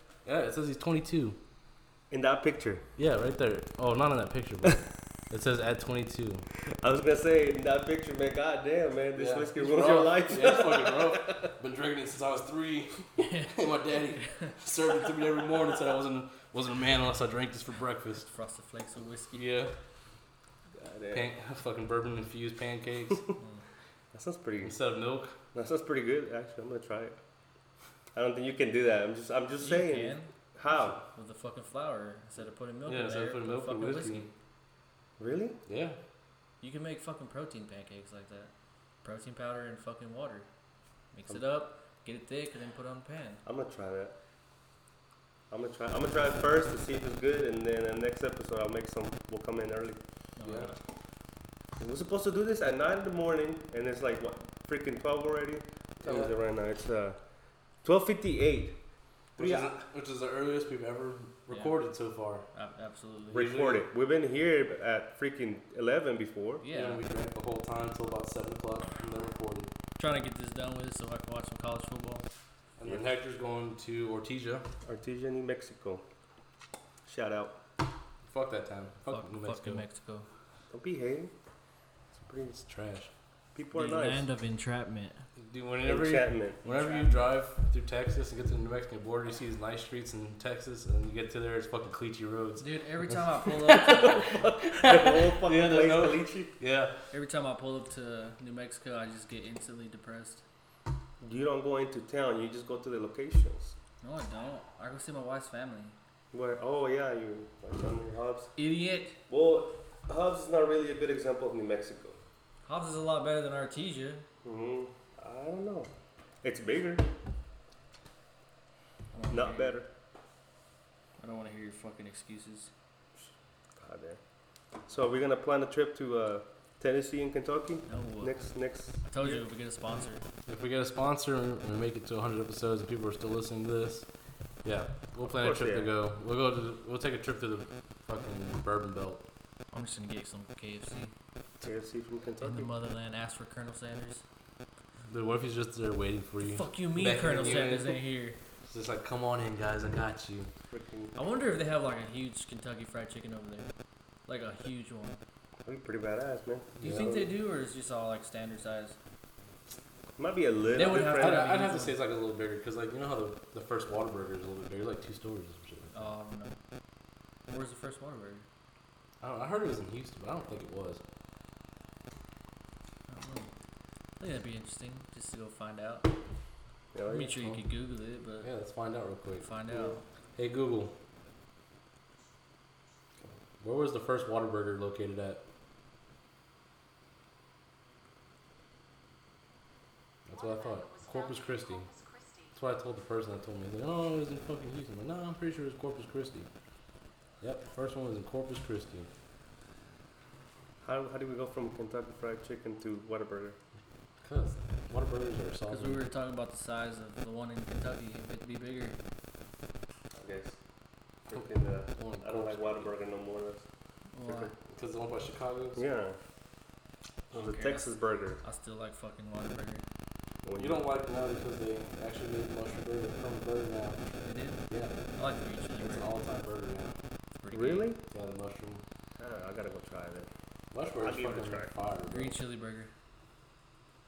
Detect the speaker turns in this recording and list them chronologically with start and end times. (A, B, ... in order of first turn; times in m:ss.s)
0:00.2-0:01.4 A
0:02.1-0:02.9 B
0:03.0-0:06.4 A
0:06.7-0:11.5 B
0:09.2-0:18.3 A
0:13.2-0:13.5 C
0:18.3-0:19.4 C
0:19.3-0:19.7 A
0:20.8-0:21.3 B
0:21.1-0:23.3 A
0:24.1-0:24.8 B
0:24.6-0:25.4 A
0:25.5-0:27.2 B
0:28.1-0:31.0 B
0:29.6-0:30.3 C
0:30.9-0:34.3 C
0:32.8-0:34.3 A
0:35.2-0:35.6 B
0:35.7-0:36.0 A
0:36.6-0:38.5 C
0:39.0-0:40.5 C
0:41.1-0:43.4 C
0:43.4-0:44.1 B
0:45.5-0:50.0 B
0:50.4-0:50.8 C
0:50.4-0:50.7 A
0:51.8-0:57.2 B
0:56.0-0:56.3 A
0:57.8-0:58.8 B
0:59.4-0:59.8 B
0:59.4-1:02.4 A
1:01.5-1:01.7 C
1:02.5-1:03.4 C
1:03.3-1:03.8 A
1:03.3-1:06.6 B
1:06.6-1:07.0 C
1:06.7-1:09.7 A
1:10.0-1:12.2 C
1:12.8-1:14.7 A
1:14.8-1:16.0 B
1:17.0-1:17.6 B
1:18.3-1:19.8 A
1:19.1-1:20.3 C
1:20.7-1:21.3 B
1:22.1-1:22.6 B
1:22.6-1:23.1 A
1:23.5-1:24.3 B
1:23.7-1:25.2 C
1:25.4-1:36.9 A
1:25.8-1:26.6 B
1:26.6-1:27.1 C
1:32.6-1:34.4 C
1:34.0-1:36.5 B
1:37.1-1:40.4 C
1:41.2-1:43.7 B
1:44.0-1:45.9 C
1:46.3-1:48.5 B
1:48.6-1:49.2 C
1:49.3-1:52.2 B
1:52.6-1:54.2 C
1:54.4-1:55.9 B
1:56.4-1:57.1 B
1:59.1-1:59.8 C
1:59.3-1:59.9 B
2:01.2-2:02.7 C
2:03.8-2:04.2 B
2:04.9-2:09.4 B
2:07.9-2:08.3 C
2:09.1-2:10.2 C
2:10.5-2:14.1 A
2:14.6-2:19.2 A
2:15.2-2:15.9 B
2:19.7-2:21.1 C
2:21.6-2:22.7 B
2:22.4-2:24.2 C
2:25.1-2:28.0 A
2:26.4-2:28.4 C
2:28.6-2:30.5 A
2:30.7-2:31.1 B
2:31.1-2:33.7 C
2:34.3-2:35.2 C
2:35.6-2:37.3 B
2:36.8-2:39.0 C
2:36.8-2:37.1 A
2:40.2-2:41.4 B
2:40.8-2:42.0 C
2:40.9-2:46.1 A
2:45.9-2:46.6 C
2:47.5-2:48.4 C
2:49.2-2:51.0 A
2:53.1-2:53.5 C
2:54.2-2:56.1 C
2:56.9-2:57.4 B
2:57.1-2:58.5 C
2:58.4-2:59.5 A
2:59.4-3:00.0 C
2:59.7-3:00.0 B
3:00.4-3:00.9 A
3:03.6-3:05.4 A
3:10.3-3:16.5 A
3:17.4-3:19.1 A
3:20.8-3:23.6 B
3:24.2-3:26.0 A
3:25.7-3:29.0 C
3:30.2-3:30.6 B
3:31.3-3:33.6 B
3:32.0-3:32.9 A
3:34.1-3:34.5 C
3:34.2-3:34.5 B
3:34.7-3:35.8 A
3:35.8-3:36.2 B
3:37.3-3:37.9 C
3:37.3-3:38.4 B
3:38.4-3:39.8 C
3:40.4-3:40.8 B
3:40.6-3:44.0 A
3:44.2-3:44.6 C
3:44.7-3:45.0 A
3:45.1-3:46.1 C
3:45.8-3:47.0 A
3:47.4-3:47.9 C
3:47.5-3:48.0 B
3:48.1-3:48.8 A
3:49.2-3:50.3 B
3:50.7-3:52.4 A
3:51.0-3:51.7 B
3:52.1-3:52.9 C